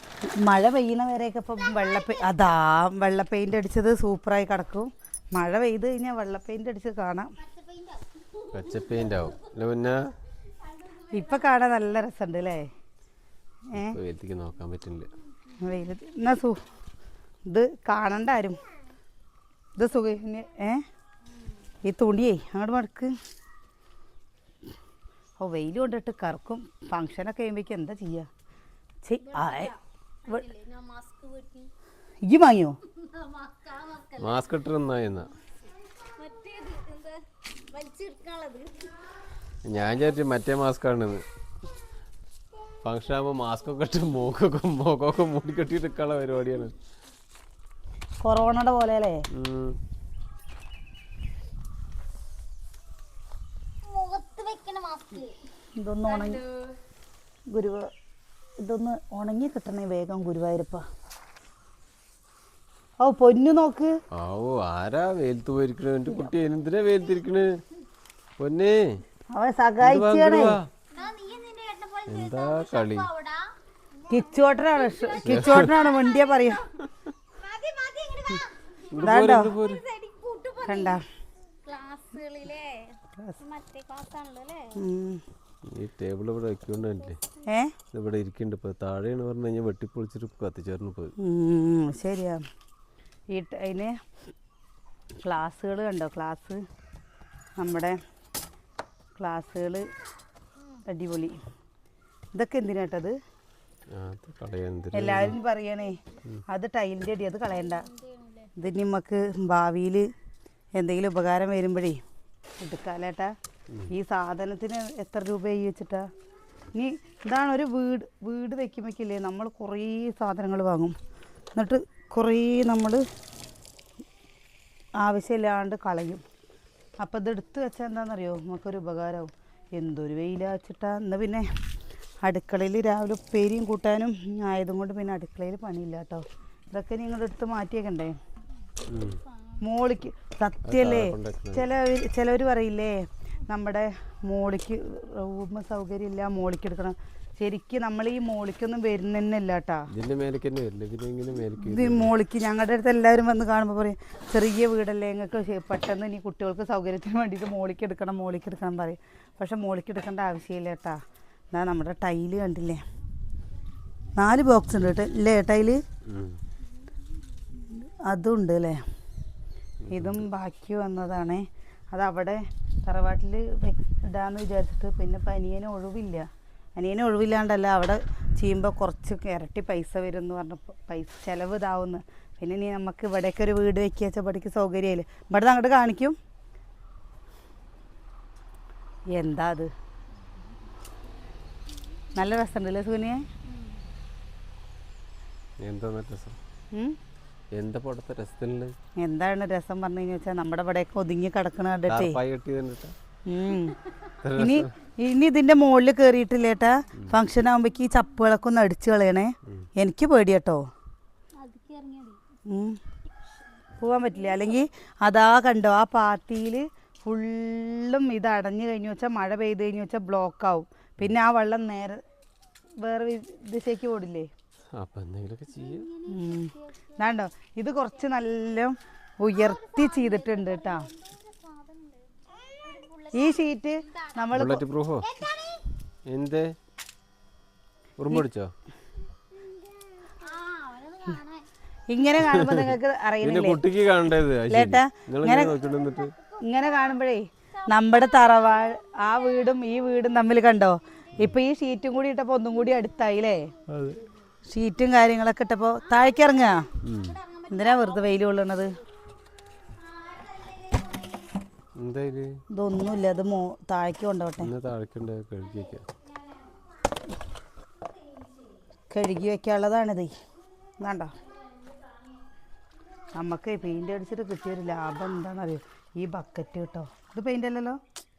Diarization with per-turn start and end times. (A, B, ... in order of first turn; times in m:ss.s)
0:00.4-0:07.3 A
0:07.5-0:08.0 B
0:08.5-0:10.1 C
0:11.1-0:12.6 A
0:13.7-0:15.1 C
0:15.6-0:16.6 A
0:17.5-0:18.6 A
0:19.8-0:20.8 A
0:21.8-0:23.1 A
0:25.4-0:28.3 A
0:29.0-0:29.7 A
0:29.3-0:31.7 B
0:32.2-0:32.7 A
0:33.1-0:34.4 B
0:34.2-0:35.3 C
0:36.2-0:38.9 B
0:39.6-0:41.2 C
0:42.8-0:46.7 C
0:48.2-0:49.2 A
0:49.3-0:49.8 C
0:53.8-0:55.3 B
0:55.8-0:56.4 A
0:57.5-0:57.9 A
0:58.6-1:00.8 A
1:03.0-1:03.9 A
1:04.2-1:07.6 C
1:08.4-1:09.0 C
1:09.3-1:10.6 A
1:09.8-1:10.7 C
1:10.9-1:13.4 B
1:12.1-1:13.1 C
1:14.1-1:16.6 A
1:14.2-1:16.6 B
1:15.2-1:15.7 C
1:17.4-1:21.0 B
1:18.9-1:19.8 C
1:19.0-1:19.5 A
1:20.6-1:21.0 A
1:21.6-1:24.8 B
1:24.8-1:25.2 A
1:25.7-1:27.2 C
1:27.4-1:27.7 A
1:27.9-1:31.1 C
1:31.2-1:32.4 A
1:33.3-1:33.9 A
1:35.2-1:36.6 A
1:37.6-1:38.0 A
1:39.2-1:39.8 A
1:40.9-1:41.4 A
1:42.3-1:43.1 A
1:43.9-1:45.4 C
1:44.9-1:46.0 A
1:46.5-1:47.8 A
1:47.5-1:48.5 B
1:48.6-1:50.1 A
1:50.8-1:52.0 A
1:52.6-1:53.3 A
1:53.9-1:56.1 A
1:56.7-2:00.9 A
2:01.5-2:03.0 A
2:05.0-2:06.2 A
2:07.0-2:11.4 A
2:12.2-2:18.2 A
2:18.9-2:19.2 C
2:19.6-2:29.8 A
2:20.6-2:21.7 C
2:29.9-2:32.1 C
2:31.6-2:41.0 A
2:41.5-2:42.8 A
2:44.2-2:45.8 A
2:46.1-2:46.4 C
2:47.7-2:48.8 A
2:49.8-2:50.3 C
2:49.9-3:06.2 A
3:09.1-3:09.7 A
3:12.2-3:13.2 A
3:15.6-3:16.4 C
3:17.5-3:18.8 C
3:19.0-3:22.2 A
3:21.9-3:22.9 C
3:23.3-3:23.8 A
3:24.2-3:24.7 C
3:24.4-3:30.6 A
3:31.4-3:32.2 B
3:32.5-3:32.8 A
3:33.8-3:42.0 A
3:42.8-3:44.3 A
3:44.7-3:45.9 C
3:45.5-3:47.0 B
3:46.1-3:50.9 A
3:49.3-3:54.2 B
3:53.1-3:54.6 A
3:54.3-3:55.1 C
3:55.0-3:55.7 B
3:56.1-3:56.5 C
3:58.0-3:58.5 C
3:59.4-4:01.4 B
4:01.9-4:03.6 A
4:02.2-4:06.1 C
4:04.5-4:05.5 A
4:06.4-4:13.5 A
4:13.7-4:14.0 C
4:14.5-4:16.6 A
4:15.9-4:18.1 B
4:16.8-4:17.2 C
4:17.5-4:18.8 A
4:19.8-4:21.3 B
4:21.8-4:22.3 C
4:22.5-4:24.5 A
4:24.4-4:25.8 C
4:28.9-4:30.1 A
4:30.8-4:31.1 A
4:33.1-4:37.8 A